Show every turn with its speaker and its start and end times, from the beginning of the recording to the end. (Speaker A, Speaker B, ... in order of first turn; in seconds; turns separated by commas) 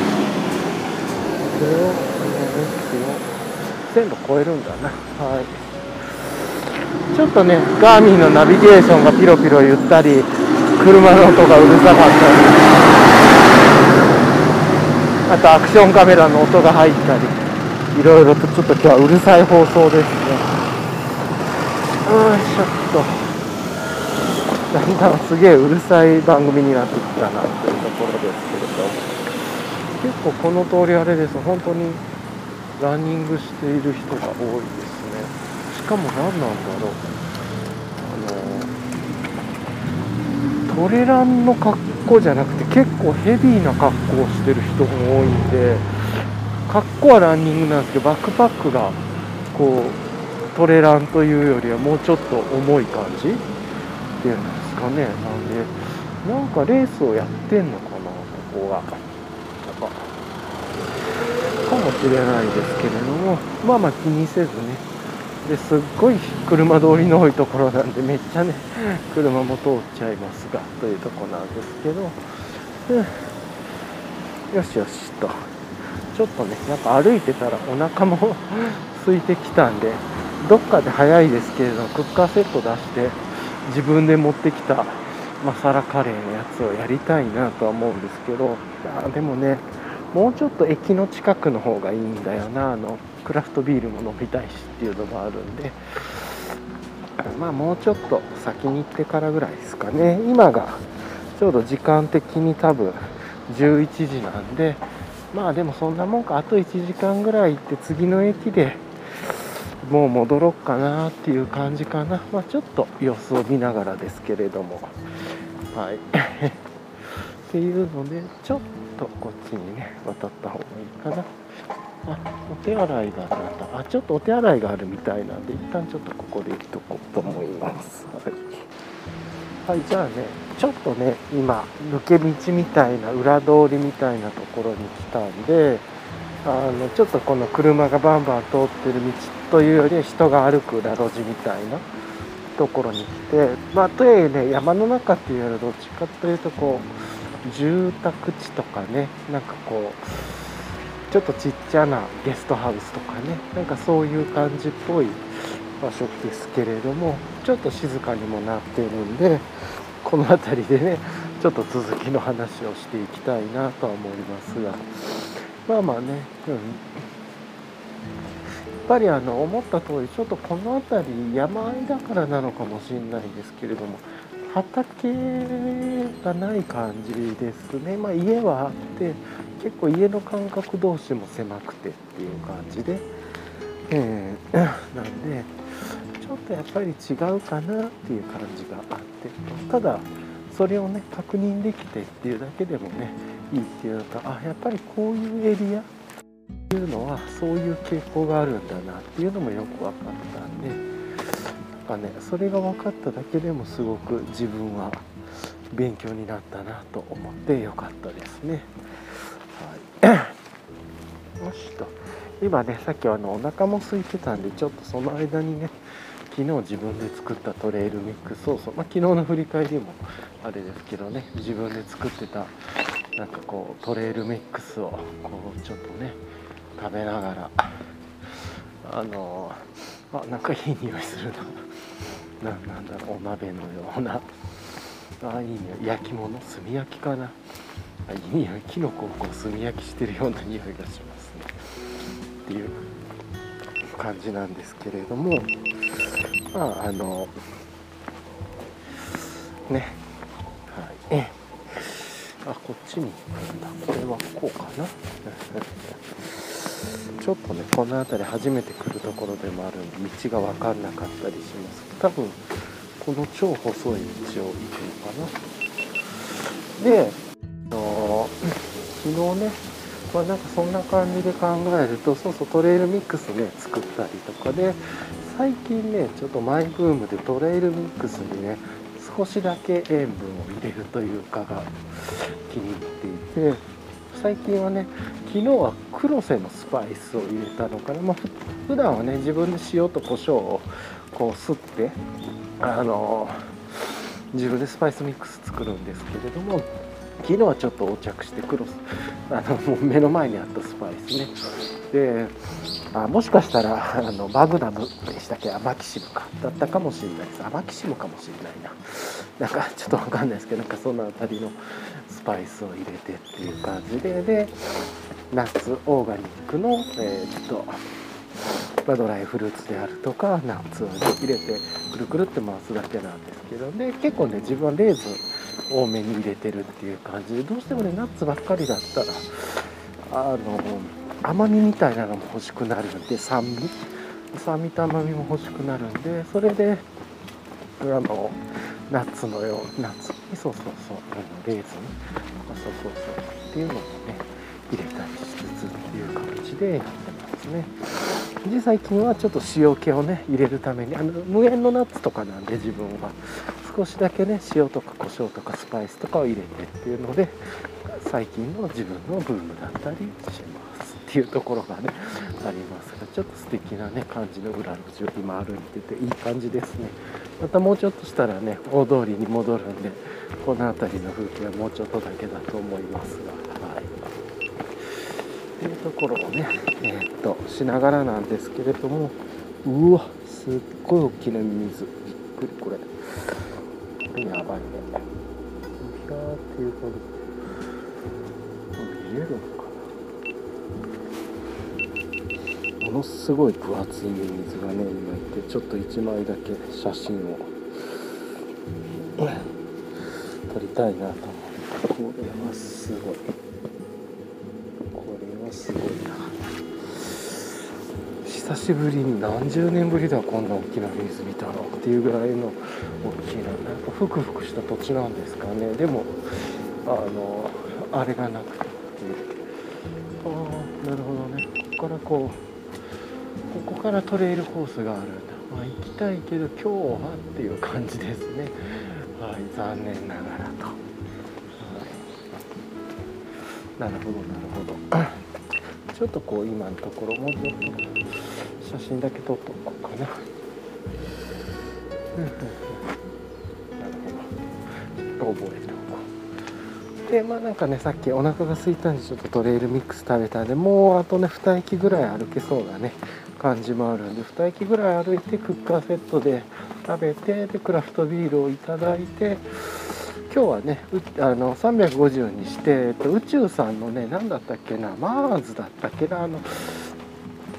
Speaker A: 1.4-3.3, Speaker A: 3.9-5.5, Speaker A: 7.1-12.8, Speaker A: 15.3-20.5, Speaker A: 22.0-23.3, Speaker A: 24.7-29.0, Speaker A: 29.9-32.0, Speaker A: 32.8-37.0, Speaker A: 38.0-38.7, Speaker A: 40.7-45.9, Speaker A: 46.7-50.0, Speaker A: 50.5-53.5, Speaker A: 54.2-59.0, Speaker A: 59.6-60.1, Speaker A: 61.6-64.9, Speaker A: 65.4-72.2, Speaker A: 72.8-73.3, Speaker A: 74.5-75.5, Speaker A: 76.1-96.5, Speaker A: 97.2-114.9, Speaker A: 115.7-121.3, Speaker A: 122.0-128.6, Speaker A: 129.6-135.9, Speaker A: 136.4-141.8, Speaker A: 142.5-146.9, Speaker A: 147.4-159.5, Speaker A: 160.0-166.9, Speaker A: 168.8-183.1, Speaker A: 183.9-195.9, Speaker A: 196.7-205.1, Speaker A: 205.7-210.3, Speaker A: 211.4-215.8, Speaker A: 216.3-222.6, Speaker A: 223.2-226.2, Speaker A: 226.8-227.8, Speaker A: 228.8-231.6, Speaker A: 232.4-234.3, Speaker A: 235.2-237.4, Speaker A: 238.1-241.5, Speaker A: 242.4-242.8, Speaker A: 243.9-247.4, Speaker A: 249.1-250.0, Speaker A: 250.7-262.4, Speaker A: 263.0-265.3, Speaker A: 266.8-268.4, Speaker A: 269.0-292.0, Speaker A: 292.6-296.7, Speaker A: 297.2-301.3, Speaker A: 301.9-302.4, Speaker A: 302.9-314.5, Speaker A: 315.3-317.8, Speaker A: 318.9-333.8, Speaker A: 334.3-336.9, Speaker A: 337.8-357.4, Speaker A: 357.9-373.9, Speaker A: 375.6-383.4, Speaker A: 384.0-385.0, Speaker A: 385.8-387.1, Speaker A: 388.8-389.9, Speaker A: 392.8-397.5, Speaker A: 399.2-399.4, Speaker A: 400.5-403.3, Speaker A: 404.9-406.4, Speaker A: 406.9-407.4, Speaker A: 408.2-419.4, Speaker A: 420.2-422.4, Speaker A: 423.5-430.8, Speaker A: 431.6-432.1, Speaker A: 433.8-435.2, Speaker A: 435.9-440.1, Speaker A: 442.2-442.9, Speaker A: 443.8-444.3, Speaker A: 444.9-446.1, Speaker A: 447.1-466.9